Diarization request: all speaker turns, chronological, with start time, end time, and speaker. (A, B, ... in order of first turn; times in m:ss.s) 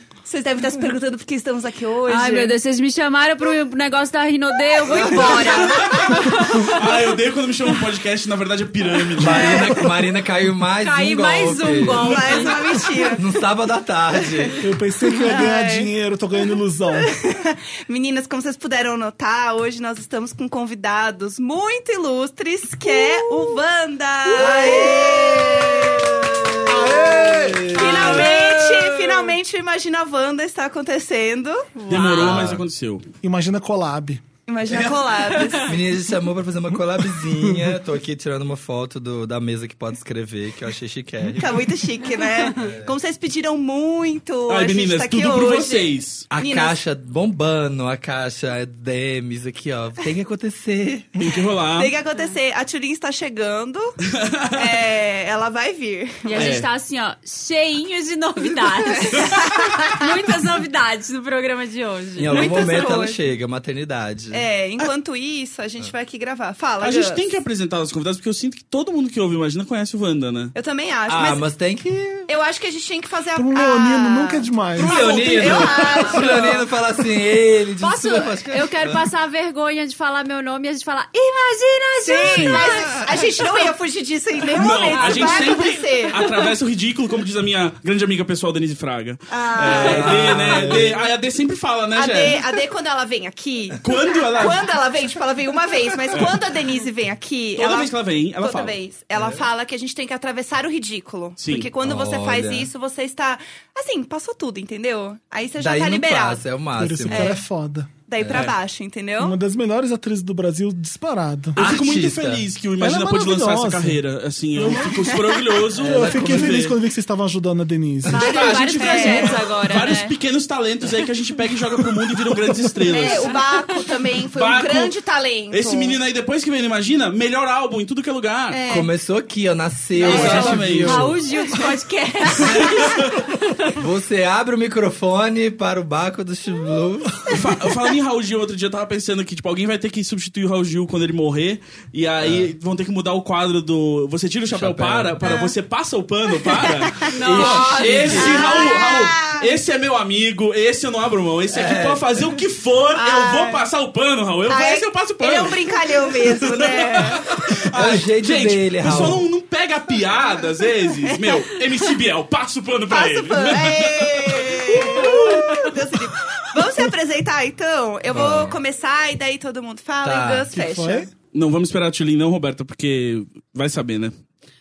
0:00.2-0:02.5 A
0:02.1-0:06.8 B
0:04.9-0:05.5 C
0:05.7-0:09.9 D
0:09.2-0:12.2 C
0:09.3-0:09.6 A
0:10.8-0:13.1 B
0:12.0-0:13.2 A
0:13.1-0:14.6 C
0:14.2-0:15.9 A
0:14.6-0:17.1 E
0:17.0-0:31.8 A
0:24.3-0:29.3 C
0:31.8-0:32.4 B
0:31.9-0:33.1 D
0:32.2-0:32.6 C
0:33.2-0:34.2 E
0:34.4-0:35.7 A
0:34.7-0:41.6 C
0:41.4-0:46.8 A
0:42.5-0:42.9 C
0:44.5-0:46.3 D
0:46.3-0:51.3 C
0:51.2-0:51.9 D
0:51.7-0:54.0 A
0:54.1-0:54.6 D
0:54.5-0:56.5 A
0:56.2-1:03.0 B
0:56.3-0:56.7 D
0:58.9-0:59.7 A
1:02.2-1:04.5 C
1:02.3-1:03.2 A
1:04.3-1:07.2 A
1:06.8-1:10.5 D
1:10.5-1:11.4 A
1:11.1-1:12.3 C
1:12.3-1:16.7 A
1:13.3-1:15.0 E
1:14.8-1:19.0 C
1:15.6-1:16.1 B
1:17.8-1:23.0 B
1:22.0-1:26.3 A
1:22.2-1:22.6 D
1:24.5-1:32.4 D
1:24.9-1:25.7 B
1:29.3-1:31.0 A
1:29.6-1:31.0 C
1:31.9-1:46.4 A
1:33.8-1:34.7 D
1:37.6-1:38.7 D
1:39.1-1:39.4 C
1:41.4-1:41.7 D
1:41.8-1:42.7 C
1:45.6-1:47.4 C
1:46.8-1:47.9 E
1:47.1-1:47.4 A
1:48.1-1:49.4 A
1:48.2-1:48.5 C
1:49.2-1:51.6 E
1:51.6-1:52.4 C
1:51.6-1:56.8 D
1:52.8-1:54.0 E
1:54.6-1:55.1 E
1:55.8-1:56.6 C
1:55.8-1:58.3 E
1:58.0-2:03.4 D
1:58.1-2:00.1 B
1:58.3-1:59.4 A
2:02.8-2:06.0 A
2:02.9-2:03.2 B
2:04.3-2:04.9 D
2:05.5-2:08.6 D
2:08.5-2:08.9 A
2:08.7-2:11.2 C
2:09.9-2:11.1 D
2:10.0-2:10.6 A
2:10.1-2:13.6 B
2:12.4-2:12.8 C
2:12.5-2:13.1 D
2:13.7-2:17.5 C
2:17.3-2:45.7 D
2:22.2-2:22.5 C
2:24.5-2:25.2 C
2:25.2-2:25.5 A
2:26.4-2:27.1 A
2:27.1-2:28.6 B
2:27.2-2:28.5 C
2:28.1-2:29.6 A
2:31.5-2:32.2 C
2:32.9-2:33.6 A
2:34.5-2:37.3 A
2:37.7-2:39.2 C
2:41.1-2:41.4 A
2:42.9-2:51.1 A
2:48.1-2:48.6 C
2:50.0-2:50.6 C
2:50.6-2:51.1 E
2:51.3-2:54.1 D